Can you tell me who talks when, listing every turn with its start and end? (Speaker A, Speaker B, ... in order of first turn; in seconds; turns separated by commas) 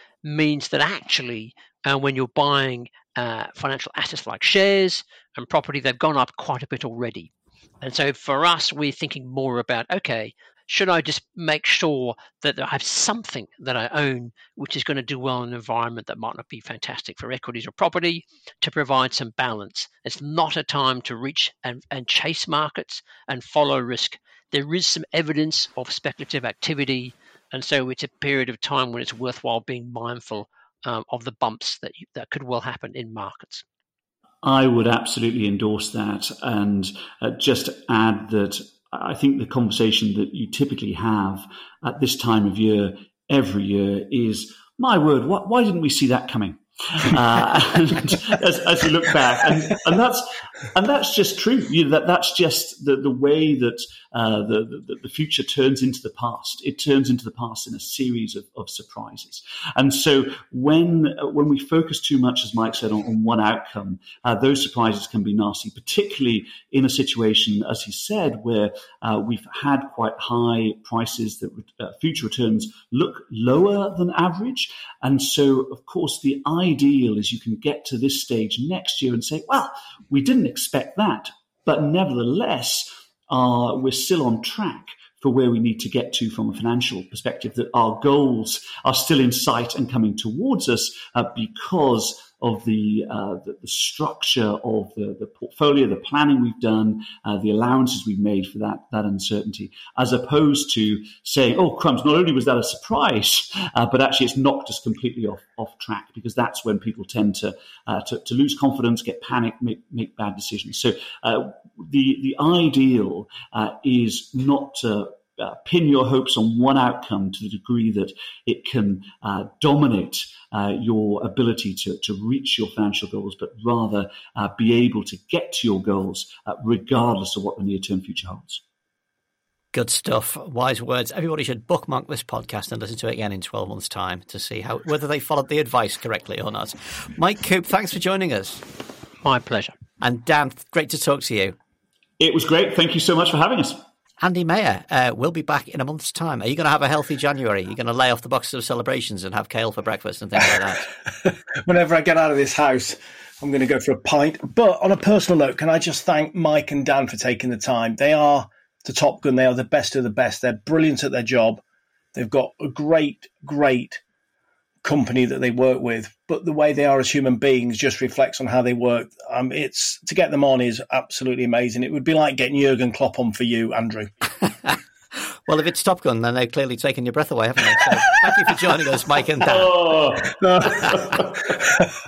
Speaker A: 0.2-7.3, Speaker A: 7.8-33.6, Speaker B: 34.4-128.6, Speaker C: 129.7-138.6, Speaker A: 139.2-139.7, Speaker C: 140.0-141.5, Speaker B: 142.2-143.8, Speaker C: 144.2-150.9, Speaker D: 151.6-161.6, Speaker D: 162.1-164.0, Speaker D: 164.8-174.1, Speaker C: 174.4-179.8, Speaker B: 179.4-181.3, Speaker D: 180.2-181.9